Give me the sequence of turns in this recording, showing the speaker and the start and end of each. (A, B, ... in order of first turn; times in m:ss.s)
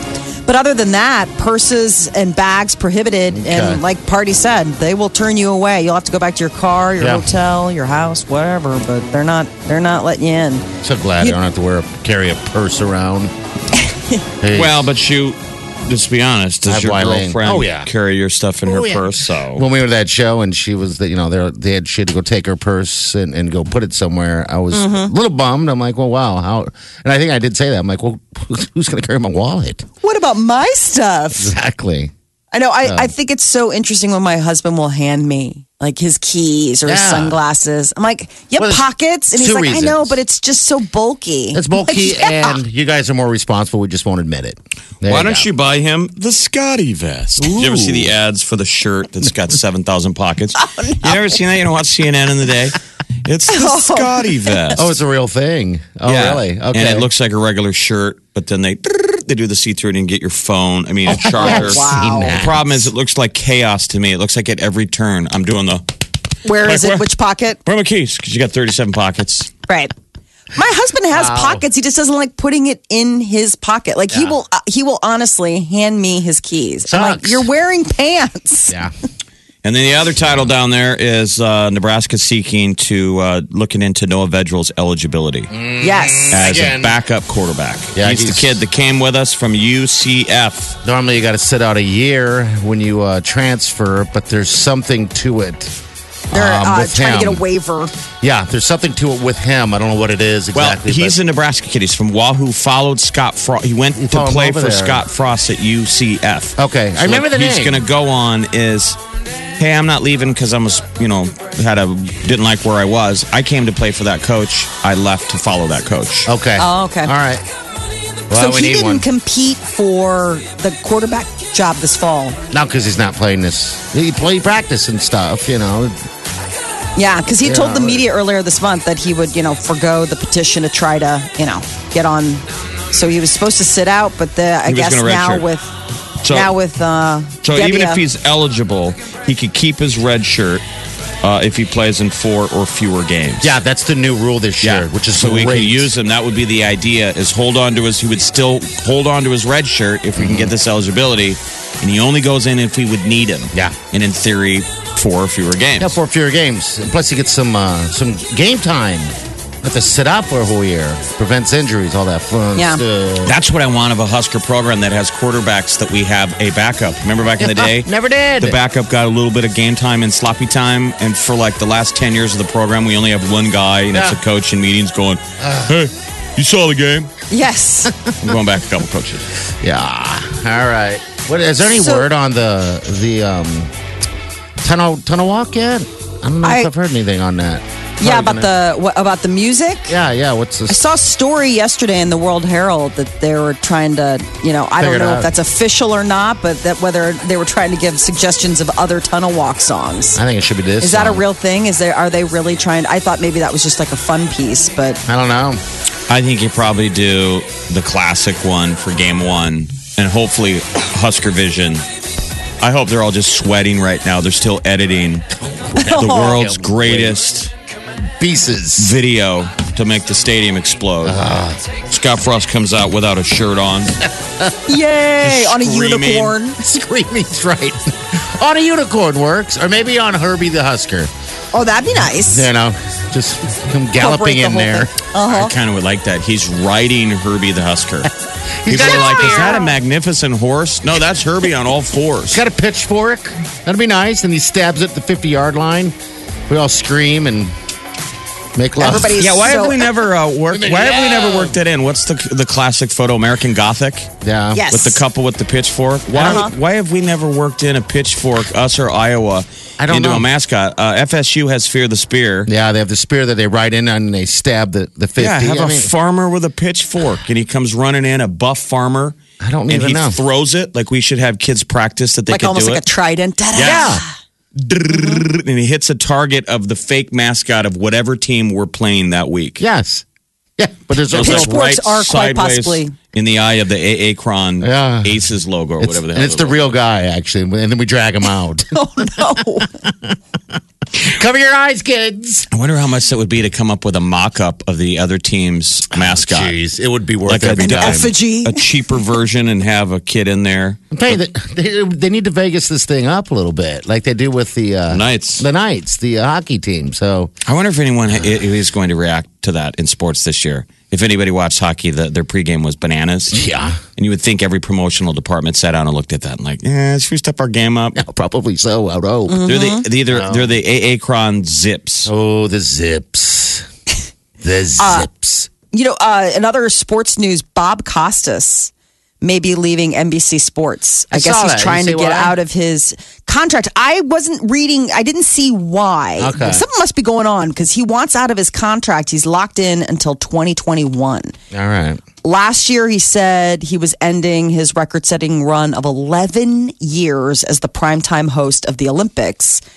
0:00.5-0:10.7 A
0:03.3-0:03.8 B
0:07.0-0:07.3 B
0:10.8-0:13.3 B
0:13.9-0:14.2 A
0:14.4-0:14.8 B
0:14.5-0:19.6 C
0:16.6-0:17.9 B
0:18.6-0:29.9 B
0:24.7-0:25.1 A
0:30.0-0:31.5 A
0:31.4-0:32.1 B
0:32.5-0:42.6 A
0:32.8-0:33.1 B
0:36.8-0:37.4 B
0:38.6-0:40.2 B
0:41.5-0:45.5 B
0:45.0-0:55.0 C
0:47.4-0:48.1 B
0:50.6-0:51.1 A
0:53.5-0:54.7 A
0:54.8-0:57.1 B
0:56.0-1:05.8 C
1:01.1-1:02.9 B
1:01.4-1:02.4 A
1:06.4-1:07.6 A
1:06.6-1:07.1 C
1:07.6-1:09.5 C
1:09.7-1:09.9 A
1:10.5-1:18.8 A
1:11.1-1:11.6 B
1:14.1-1:14.4 B
1:16.8-1:17.5 B
1:19.6-1:25.5 C
1:25.5-1:27.0 B
1:25.8-1:26.3 A
1:26.3-1:30.8 C
1:28.0-1:28.6 B
1:30.8-1:35.8 B
1:36.3-1:37.4 B
1:36.3-1:37.9 A
1:38.2-1:41.2 B
1:40.5-1:49.0 C
1:44.0-1:45.0 B
1:46.6-1:47.8 B
1:49.6-1:56.3 C
1:56.3-1:57.4 B
1:56.6-1:57.1 A
1:58.3-1:59.1 B
1:58.3-2:02.4 A
2:02.5-2:06.1 B
2:07.0-2:15.7 A
2:07.4-2:08.1 B
2:14.7-2:15.5 C
2:16.2-2:16.5 C
2:16.3-2:18.0 A
2:17.4-2:20.6 C
2:21.2-2:23.5 C
2:23.4-2:25.9 B
2:24.6-2:36.0 C
2:30.2-2:30.5 B
2:35.8-2:43.4 B
2:42.6-2:42.8 A
2:43.2-2:57.1 C
2:47.4-2:48.6 B
2:53.9-2:54.2 B
2:55.4-2:55.8 B
2:57.3-2:57.9 A
2:58.2-2:59.3 C
2:59.6-3:03.7 B
3:01.7-3:02.1 A
3:04.6-3:08.5 B
3:06.4-3:06.7 A
3:08.0-3:09.9 A
3:09.9-3:10.8 B
3:10.7-3:20.2 A
3:14.8-3:15.3 B
3:20.2-3:21.2 B
3:20.8-3:25.0 A
3:25.1-3:25.6 B
3:26.1-3:31.8 C
3:32.6-3:35.3 C
3:35.4-3:37.2 B
3:35.8-3:36.3 A
3:35.9-3:37.5 C
3:38.2-3:39.0 B
3:38.8-3:41.2 C
3:41.0-3:41.7 B
3:41.9-3:44.0 C
3:44.2-3:44.5 B
3:44.7-3:46.6 A
3:45.2-3:46.4 C
3:46.6-3:51.1 B
3:51.5-3:52.5 A
3:52.2-3:54.9 B
3:54.0-3:55.5 A
3:55.3-3:58.1 C
3:58.6-3:59.7 B
3:58.7-4:02.4 C
3:58.9-3:59.7 A
4:02.3-4:06.0 B
4:06.5-4:07.5 B
4:08.6-4:09.3 B
4:08.8-4:09.8 A
4:08.9-4:14.1 C
4:10.5-4:11.6 B
4:14.2-4:14.6 B
4:14.5-4:15.0 A
4:14.7-4:22.5 C
4:16.2-4:16.5 B
4:16.2-4:16.5 A
4:19.8-4:20.3 B
4:22.5-4:25.9 B
4:25.2-4:32.8 C
4:29.4-4:30.2 B
4:32.3-4:34.1 A
4:33.6-4:33.9 C
4:33.6-4:34.0 B
4:34.6-4:39.6 C
4:39.6-4:40.0 B
4:40.6-4:41.6 B
4:41.1-4:46.6 C
4:41.2-4:43.0 A
4:44.6-4:45.2 B
4:45.8-4:50.2 B
4:48.7-4:49.7 A
4:51.0-4:52.5 B
4:52.5-4:56.6 C
4:55.9-4:58.1 B
4:57.3-5:01.1 C
4:57.6-4:58.7 A
5:00.9-5:07.3 B
5:04.9-5:05.4 C
5:07.4-5:13.4 C
5:13.3-5:13.8 B
5:14.0-5:18.0 C
5:18.0-5:19.5 B
5:19.3-5:19.8 A
5:19.5-5:22.1 C
5:20.1-5:20.6 B
5:22.1-5:23.7 B
5:24.4-5:25.5 B
5:24.8-5:25.1 A
5:25.7-5:41.4 A
5:31.1-5:32.4 B
5:36.2-5:36.6 B
5:41.5-5:42.0 B
5:42.2-5:49.6 A